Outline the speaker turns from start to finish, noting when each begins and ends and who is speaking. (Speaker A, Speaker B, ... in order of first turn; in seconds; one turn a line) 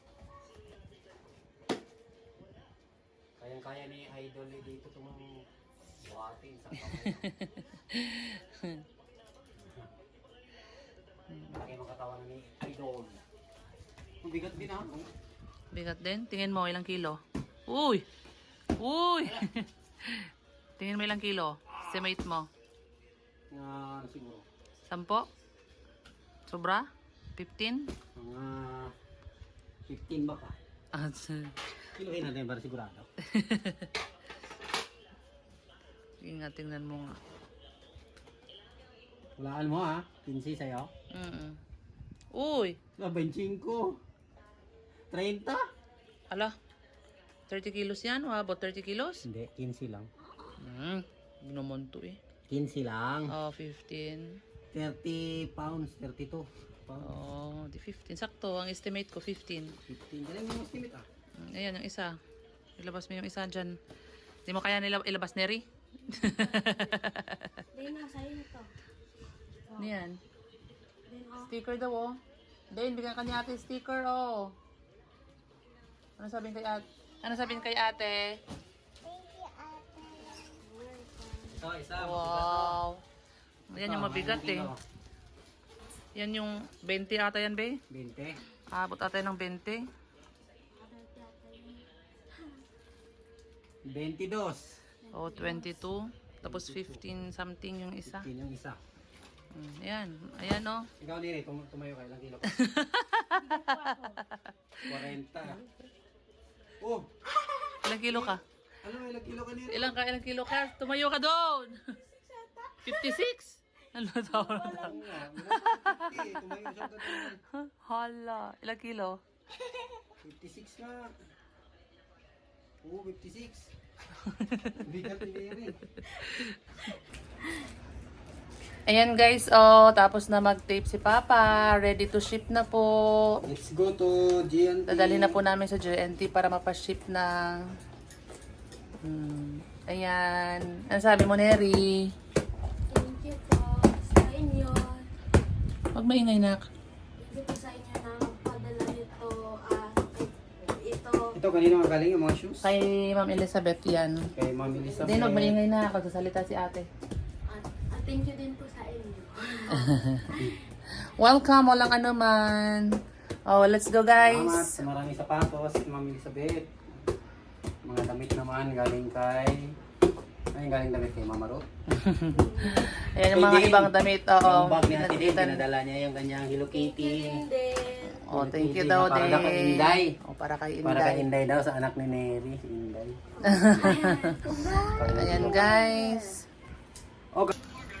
Speaker A: 3.4-5.3
Speaker A: 6.0-7.2
Speaker B: 7.1-8.8
Speaker A: 9.6-9.9
Speaker A: 11.5-13.2
Speaker A: 14.2-15.1
Speaker B: 15.7-18.1
Speaker B: 18.8-22.5
Speaker A: 23.5-24.4
Speaker B: 24.9-25.3
Speaker B: 26.5-27.9
Speaker A: 28.1-28.9
Speaker A: 29.9-30.6
Speaker B: 30.9-31.5
Speaker A: 31.9-33.1
Speaker B: 33.2-33.9
Speaker B: 36.2-37.2
Speaker A: 39.4-40.9
Speaker B: 41.1-41.6
Speaker B: 42.3-42.8
Speaker A: 43.0-44.0
Speaker A: 45.1-45.6
Speaker B: 47.5-49.2
Speaker A: 49.2-50.1
Speaker B: 50.6-52.2
Speaker A: 52.5-53.3
Speaker B: 53.3-54.4
Speaker A: 54.7-57.1
Speaker B: 57.0-59.8
Speaker A: 59.9-61.0
Speaker B: 61.4-62.2
Speaker B: 62.8-63.8
Speaker B: 64.5-67.5
Speaker C: 66.1-67.0
Speaker C: 67.7-68.7
Speaker C: 69.7-69.9
Speaker B: 69.8-70.2
Speaker C: 71.0-71.5
Speaker B: 71.5-72.2
Speaker B: 72.7-74.5
Speaker B: 76.2-78.4
Speaker C: 79.0-81.7
Speaker A: 81.5-82.8
Speaker B: 82.0-83.0
Speaker B: 83.7-84.7
Speaker A: 83.7-84.8
Speaker B: 86.2-87.8
Speaker A: 87.9-88.4
Speaker B: 88.7-89.9
Speaker C: 90.7-92.6
Speaker A: 93.8-94.8
Speaker C: 95.0-95.8
Speaker B: 95.1-98.3
Speaker A: 96.4-97.0
Speaker A: 98.0-98.8
Speaker B: 99.5-100.9
Speaker A: 101.0-102.6
Speaker B: 102.5-103.9
Speaker C: 103.3-104.2
Speaker A: 104.8-105.6
Speaker A: 106.8-107.2
Speaker B: 107.8-108.4
Speaker A: 108.0-110.0
Speaker B: 109.7-112.0
Speaker C: 112.0-112.9
Speaker B: 112.8-114.9
Speaker C: 114.3-115.0
Speaker A: 114.7-117.4
Speaker B: 115.5-116.0
Speaker B: 117.6-119.2
Speaker A: 120.2-121.1
Speaker A: 122.8-123.7
Speaker B: 124.4-124.7
Speaker A: 124.8-125.8
Speaker B: 128.9-133.4
Speaker A: 133.4-135.4
Speaker B: 134.9-137.6
Speaker B: 139.0-142.1
Speaker C: 142.9-145.1
Speaker B: 145.9-146.6
Speaker C: 147.2-151.3
Speaker A: 151.3-152.7
Speaker B: 152.6-154.3
Speaker A: 154.3-155.6
Speaker C: 154.6-155.1
Speaker B: 155.0-156.9
Speaker C: 157.5-160.6
Speaker B: 159.7-160.2
Speaker B: 161.2-164.8
Speaker A: 164.2-166.7
Speaker A: 167.8-169.7
Speaker A: 170.5-171.6
Speaker B: 171.9-175.6
Speaker C: 172.3-173.1
Speaker A: 173.3-177.4
Speaker C: 176.7-178.2
Speaker B: 178.3-181.3
Speaker A: 178.3-180.2
Speaker A: 180.8-183.2
Speaker C: 183.4-186.4
Speaker B: 183.4-184.4
Speaker A: 184.9-185.7
Speaker B: 185.1-186.4